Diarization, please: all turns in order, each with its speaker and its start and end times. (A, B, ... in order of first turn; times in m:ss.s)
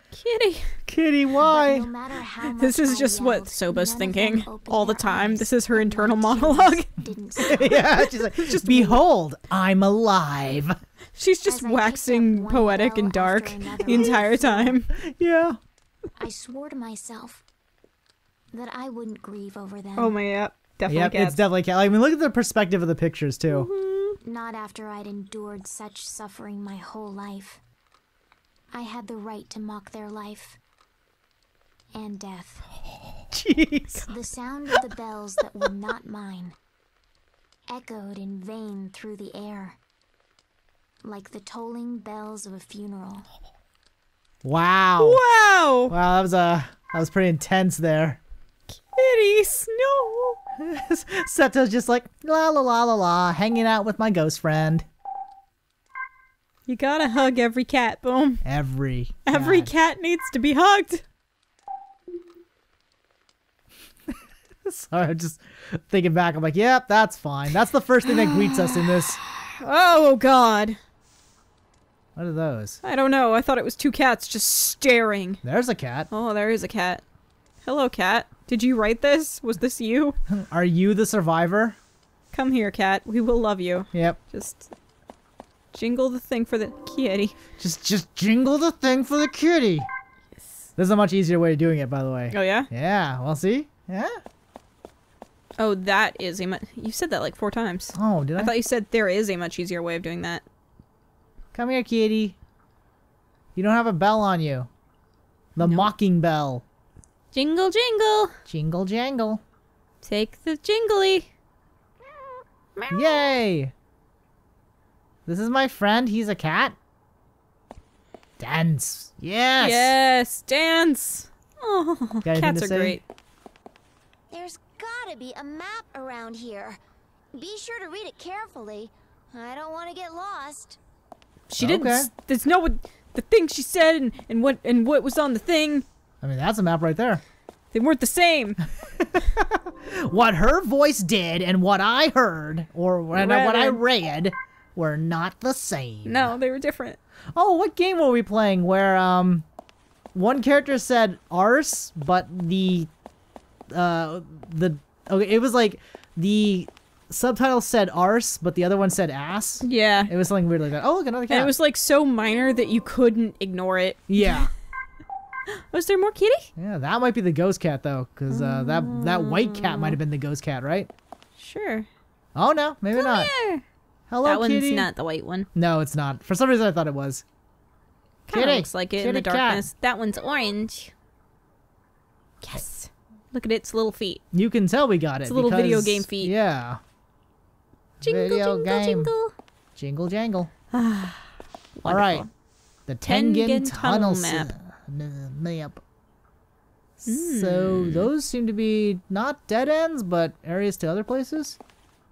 0:00.1-0:00.8 A
0:00.9-0:01.9 B
0:01.4-0:07.7 C
0:02.4-0:09.0 A
0:07.5-0:10.8 B
0:11.2-0:14.9 A
0:11.4-0:14.8 C
0:14.9-0:15.6 B
0:16.2-0:17.4 C
0:18.5-0:20.2 C
0:20.0-0:21.4 A
0:20.9-0:23.7 B
0:23.5-0:24.2 A
0:24.2-0:27.6 C
0:28.7-0:30.6 C
0:31.9-0:32.7 C
0:33.3-0:34.0 B
0:34.0-0:36.6 C
0:37.7-0:39.8 C
0:41.0-0:43.3 C
0:44.4-0:45.2 B
0:45.0-0:45.9 A
0:45.9-0:48.2 B
0:48.7-0:50.4 A
0:50.6-0:54.9 B
0:56.7-0:58.4 A
0:58.4-0:59.7 B
0:59.3-1:01.0 A
1:04.1-1:09.2 B
1:08.0-1:10.8 A
1:12.2-1:12.8 B
1:12.8-1:15.4 A
1:15.4-1:16.1 B
1:16.1-1:17.0 A
1:17.6-1:20.2 A
1:20.3-1:21.8 B
1:22.3-1:24.7 A
1:23.9-1:24.2 B
1:25.7-1:27.4 A
1:27.6-1:29.9 B
1:30.8-1:34.2 B
1:32.3-1:32.7 A
1:35.6-1:40.4 A
1:38.0-1:38.5 B
1:41.5-1:42.4 B
1:43.6-1:44.7 B
1:45.6-1:46.6 B
1:45.6-1:45.9 A
1:47.3-1:48.3 A
1:48.5-1:49.4 B
1:50.0-1:51.3 A
1:52.8-1:53.4 A
1:52.9-1:53.7 B
1:55.3-1:56.8 B
1:58.4-1:59.9 B
1:59.6-2:03.0 A
2:02.2-2:03.0 B
2:04.3-2:06.8 C
2:07.3-2:10.8 C
2:11.5-2:15.8 A
2:11.6-2:12.1 B
2:16.2-2:17.2 B
2:17.7-2:18.6 A
2:18.8-2:26.4 B
2:23.1-2:23.8 A
2:26.0-2:27.0 A
2:27.4-2:29.5 B
2:30.1-2:32.9 B
2:33.7-2:41.5 B
2:39.6-2:40.1 A
2:41.3-2:44.5 A
2:44.1-2:44.5 B
2:45.5-2:46.5 A
2:46.6-2:50.9 B
2:48.3-2:50.0 A
2:51.4-2:51.9 A
2:52.4-2:53.3 B
2:52.9-2:53.6 A
2:54.1-2:54.9 B
2:54.2-2:55.5 A
2:55.6-2:57.2 B
2:58.3-3:00.9 A
2:58.3-2:59.7 B
3:02.4-3:04.2 A
3:04.3-3:06.8 B
3:05.3-3:06.3 A
3:08.0-3:09.1 B
3:08.0-3:09.3 A
3:09.8-3:10.5 B
3:10.7-3:12.3 A
3:11.8-3:12.3 B
3:12.9-3:15.8 B
3:13.1-3:14.5 A
3:17.0-3:21.6 B
3:17.1-3:18.1 A